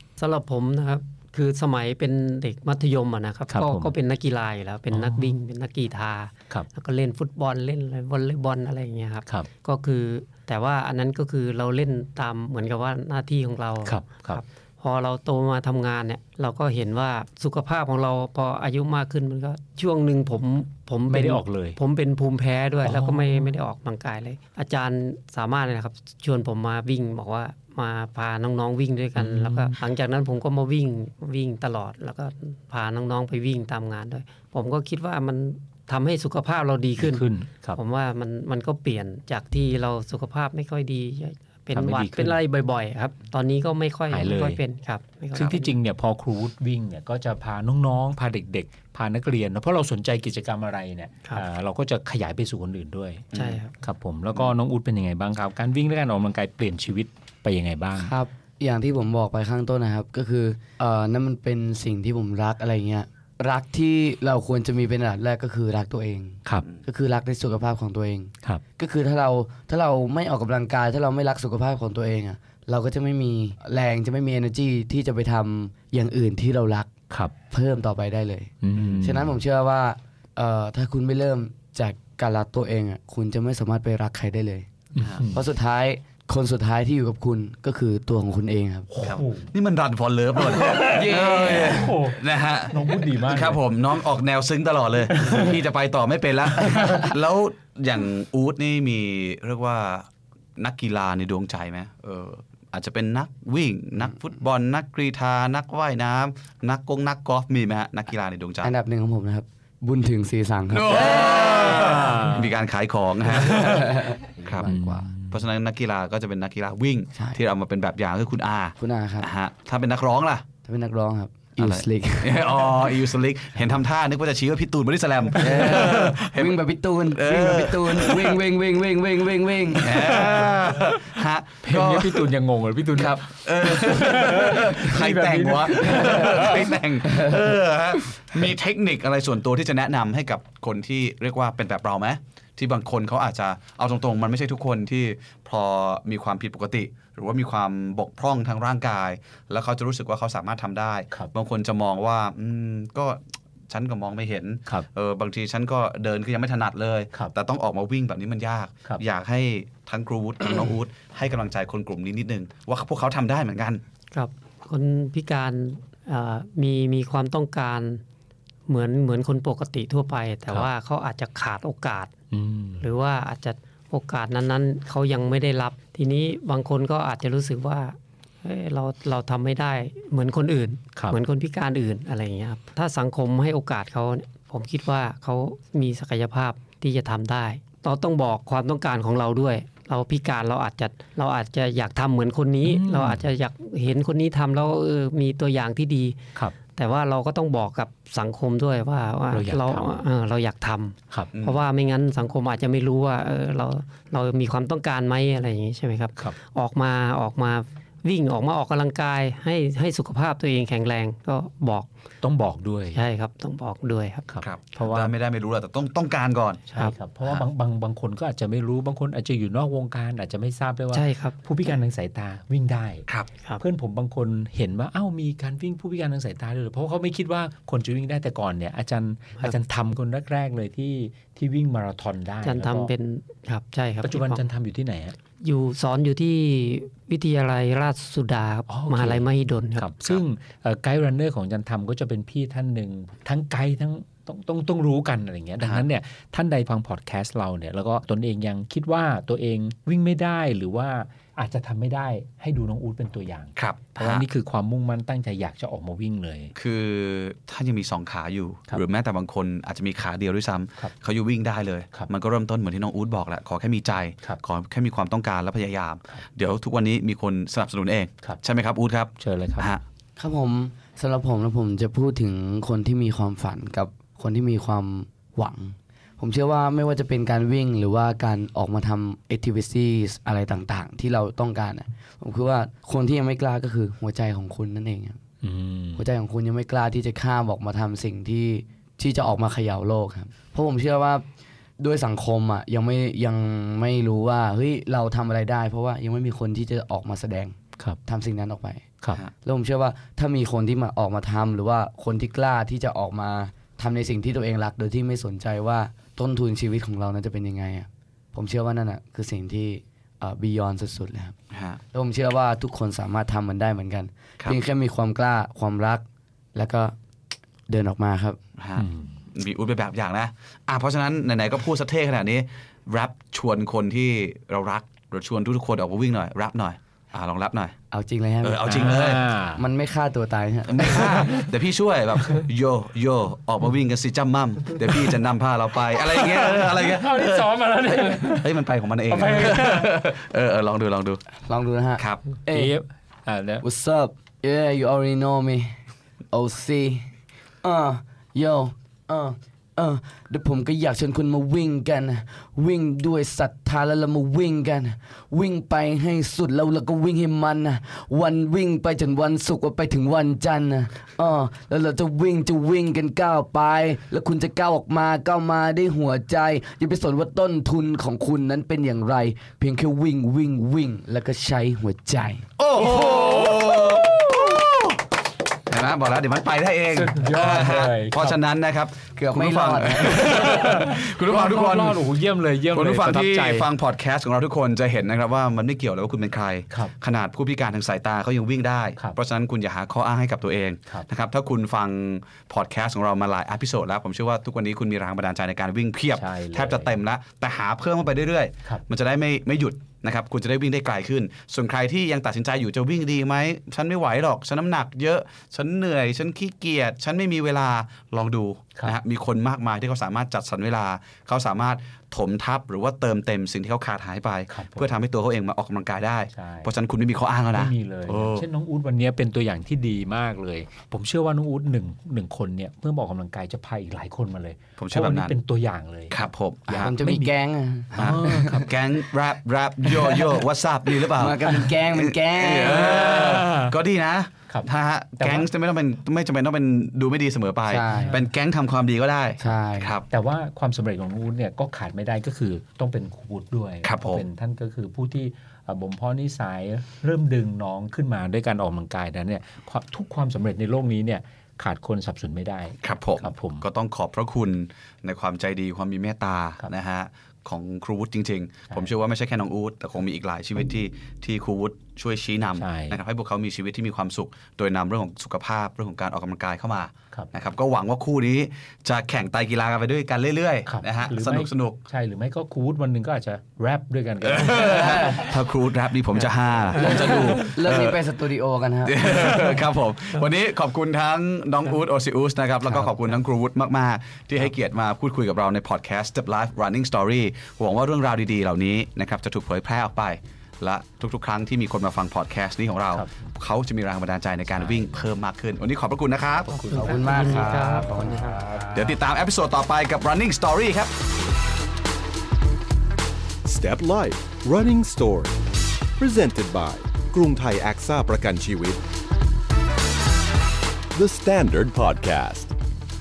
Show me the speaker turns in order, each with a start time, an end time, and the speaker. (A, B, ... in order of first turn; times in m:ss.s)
0:00.2-0:45.8 A
0:03.5-0:03.9 B
0:04.9-0:05.4 B
0:13.9-0:14.4 B
0:21.1-0:21.8 B
0:22.8-0:23.5 B
0:29.2-0:29.8 B
0:37.0-0:37.8 B
0:41.7-0:42.4 B
0:44.1-0:44.6 B
0:45.4-0:53.3 B
0:53.3-0:53.6 C
0:53.3-0:53.7 A
0:53.8-0:58.1 B
0:57.9-1:16.9 D
1:17.5-1:28.9 D
1:18.6-1:19.3 B
1:18.7-1:19.1 C
1:25.0-1:25.4 B
1:25.0-1:25.2 C
1:28.9-1:29.5 B
1:29.0-1:48.7 C
1:30.4-1:32.2 B
1:30.8-1:31.8 D
1:32.7-1:33.6 B
1:35.1-1:35.6 B
1:36.7-1:37.0 B
1:48.6-1:52.3 D
1:50.7-1:54.7 C
1:51.6-1:52.5 B
1:53.4-1:55.1 D
1:53.5-1:53.9 B
1:54.6-1:55.4 B
1:55.3-2:00.4 C
1:57.1-1:57.4 D
1:58.8-1:59.3 D
2:00.6-2:02.9 D
2:01.6-2:06.6 C
2:05.4-2:10.2 D
2:05.4-2:06.1 B
2:07.1-2:08.4 C
2:09.8-2:12.3 C
2:10.0-2:16.7 B
2:13.0-2:43.8 C
2:17.1-2:17.4 D
2:44.1-2:48.0 A
2:48.7-2:52.1 A
2:52.3-2:52.8 B
2:52.8-3:31.9 A
3:12.6-3:13.3 B
3:19.3-3:20.0 B
3:21.3-3:21.6 C
3:32.2-3:33.0 B
3:32.9-3:34.3 A
3:34.3-3:35.1 B
3:34.4-3:36.6 C
3:36.7-3:43.1 B
3:40.9-3:41.7 A
3:43.6-3:52.9 B
3:52.4-3:54.4 A
3:54.0-3:55.1 B
3:55.4-3:59.9 A
3:58.7-3:59.2 B
3:59.8-4:16.5 B
4:05.6-4:05.9 C
4:13.6-4:14.3 C
4:16.6-4:29.8 C
4:29.2-4:29.7 B
4:30.2-4:45.2 D
4:45.4-4:46.1 B
4:46.0-4:51.3 D
4:51.8-4:58.9 D
4:59.4-5:11.4 D
5:11.5-5:11.8 C
5:11.9-5:16.0 D
5:16.6-5:16.9 D
5:17.7-5:18.4 D
5:18.6-5:27.7 C
5:18.8-5:19.1 B
5:27.9-5:29.0 D
5:28.4-5:29.3 C
5:28.7-5:29.6 B
5:29.6-5:31.2 D
5:30.6-5:41.2 C
5:31.2-5:31.4 B
5:36.1-5:38.5 B
5:39.1-5:39.9 B
5:41.4-5:42.8 D
5:42.0-5:42.2 C
5:42.5-5:43.6 B
5:43.6-5:45.8 D
5:46.3-5:47.1 D
5:47.6-6:12.5 D
6:12.6-6:15.0 C
6:12.8-6:13.6 B
6:15.7-6:22.1 C
6:16.9-6:18.4 B
6:19.2-6:20.5 D
6:20.0-6:23.6 B
6:22.7-6:58.4 C
6:36.2-6:36.9 B
6:54.5-6:54.9 B
6:56.3-6:56.7 B
6:57.5-7:07.3 B
7:04.8-7:05.4 C
7:06.1-7:06.9 C
7:06.8-7:08.7 D
7:07.9-7:20.0 C
7:08.0-7:08.7 B
7:11.1-7:13.2 D
7:12.8-7:13.7 B
7:15.2-7:15.4 B
7:17.7-7:18.2 D
7:19.4-7:19.9 D
7:20.1-7:33.6 B
7:23.8-7:24.2 C
7:32.8-7:51.8 C
7:42.6-7:43.0 B
7:50.7-7:55.2 B
7:54.2-7:58.0 C
7:56.8-7:57.3 B
7:56.8-7:59.4 D
7:58.8-8:16.6 C
8:14.6-8:14.9 B
8:16.5-8:18.4 A
8:16.6-8:17.6 B
8:16.7-8:18.8 D
8:18.7-8:20.9 C
8:23.4-8:28.8 E
8:30.9-8:32.6 E